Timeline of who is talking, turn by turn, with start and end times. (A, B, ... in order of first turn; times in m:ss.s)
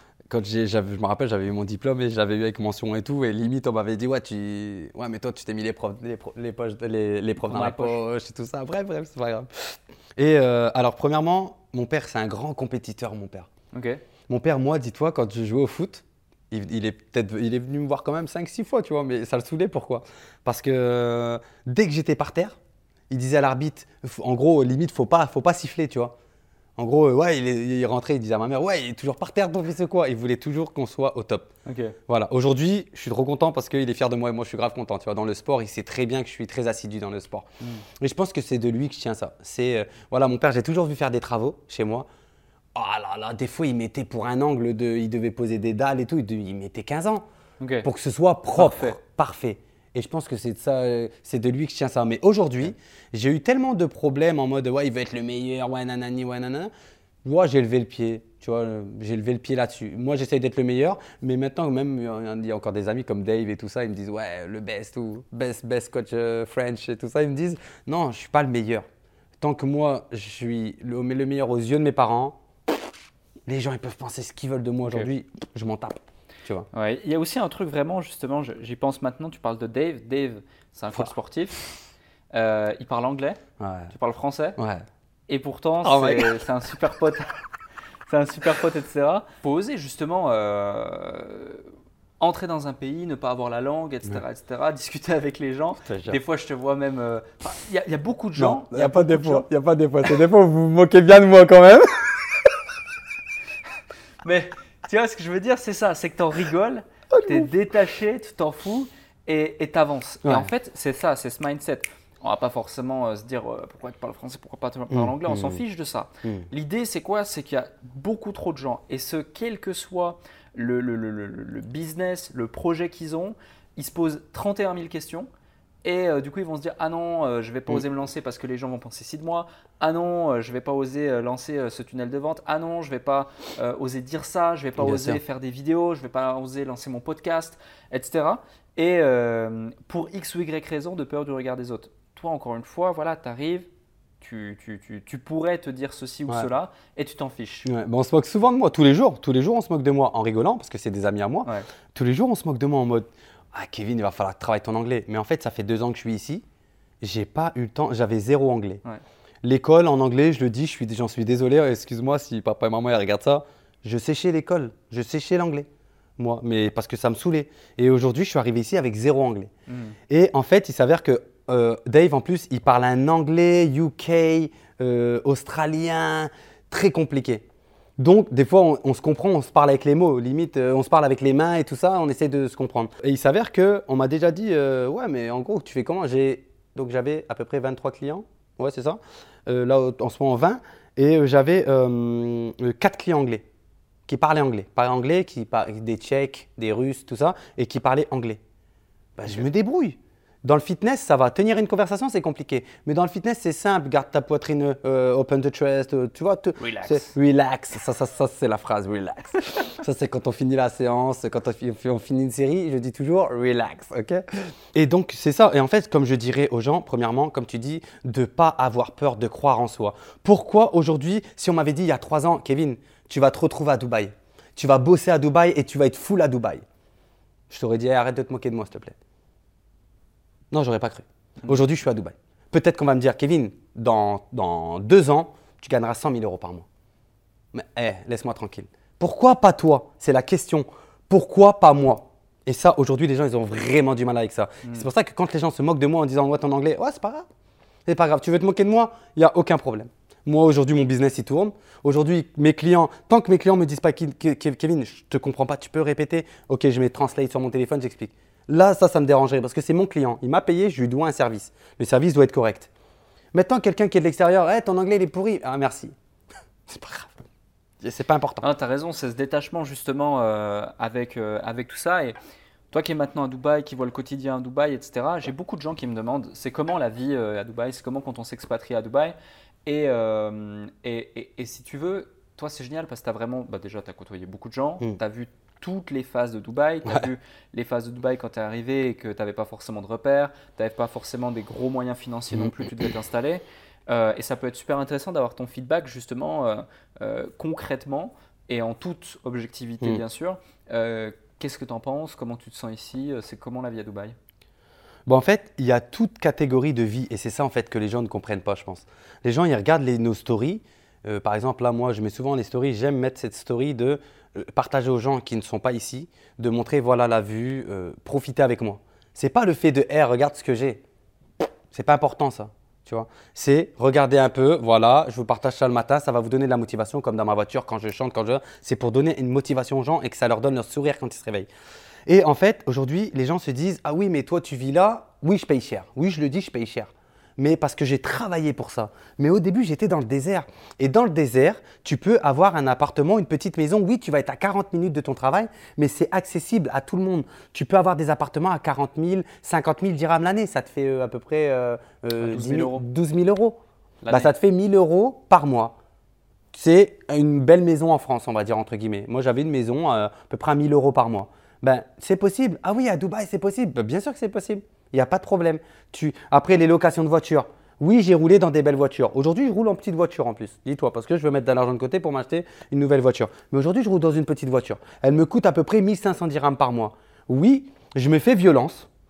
0:00.3-0:13.5 A
0:07.4-0:08.0 B
0:13.7-0:14.0 B
0:14.3-0:22.6 A
0:23.1-0:26.1 A
0:26.8-0:31.5 A
0:31.6-0:32.0 B
0:32.1-0:37.4 A
0:38.0-0:42.0 A
0:42.7-0:47.2 A
0:47.6-0:47.9 B
0:47.8-0:56.7 A
0:48.6-0:49.0 B
0:57.2-1:08.8 A
1:09.4-1:12.4 A
1:13.5-1:16.7 A
1:16.7-1:21.6 B
1:22.3-1:23.4 B
1:23.6-1:23.9 A
1:23.9-1:24.6 B
1:24.6-1:24.8 A
1:25.3-1:27.4 B
1:25.8-1:26.4 A
1:28.1-1:39.4 B
1:35.8-1:36.2 A
1:38.4-1:42.2 A
1:44.2-2:05.3 B
1:47.1-1:47.5 A
1:50.2-1:50.5 A
1:54.9-1:55.6 A
2:05.8-2:23.7 B
2:14.8-2:15.2 A
2:24.2-2:27.7 B
2:27.6-2:36.4 A
2:37.0-2:38.8 A
2:39.4-2:45.7 A
2:46.2-2:49.5 A
2:49.7-2:50.0 B
2:50.1-2:57.4 A
2:58.0-3:13.4 A
3:14.1-3:18.4 A
3:19.2-3:46.6 A
3:26.6-3:27.1 B
3:47.5-3:49.0 A
3:50.5-3:56.6 A
3:57.5-4:07.3 A
4:07.9-4:22.7 A
4:23.3-4:25.9 A
4:26.7-4:27.2 A
4:27.8-4:28.5 A
4:28.4-4:32.1 B
4:32.7-5:04.2 B
5:05.1-5:20.8 A
5:21.7-5:31.5 A
5:32.1-5:55.7 A
5:52.2-5:52.8 B
5:54.0-5:54.3 B
5:56.5-6:18.9 A